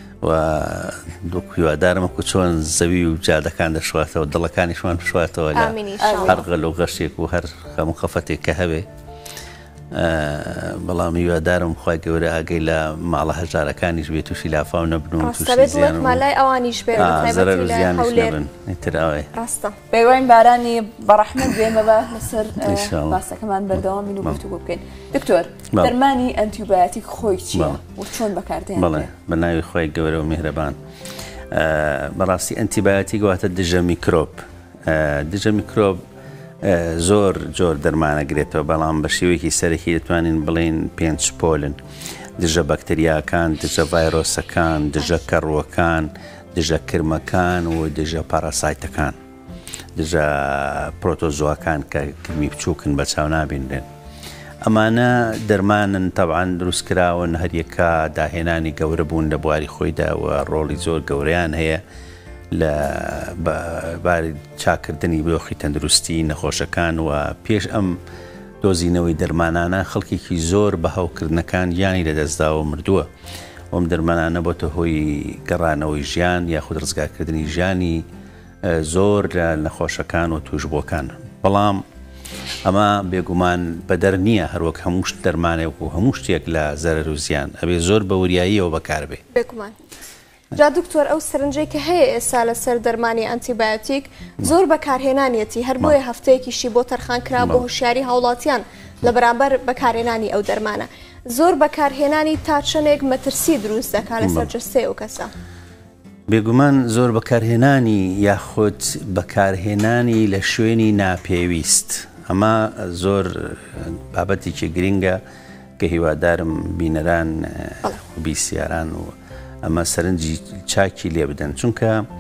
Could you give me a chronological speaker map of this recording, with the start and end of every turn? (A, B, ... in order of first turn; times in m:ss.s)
0:00.2-0:08.8 A
0:05.5-0:06.4 B
0:06.0-0:06.4 C
0:09.9-0:16.2 A
0:15.2-0:18.4 B
0:16.9-0:19.3 A
0:19.3-0:19.8 B
0:19.9-0:29.1 C
0:22.6-0:23.2 A
0:27.5-0:27.8 A
0:28.7-0:30.8 A
0:31.5-0:36.0 A
0:36.6-0:41.8 A
0:42.4-0:49.2 A
0:50.0-0:53.8 A
0:54.6-1:01.8 A
1:02.5-1:08.0 A
1:08.6-1:13.1 A
1:13.7-1:18.0 A
1:18.6-1:21.8 A
1:22.6-1:29.2 A
1:29.3-1:29.7 B
1:30.5-1:45.3 B
1:44.2-1:44.5 A
1:46.3-1:55.2 A
1:55.8-2:02.1 A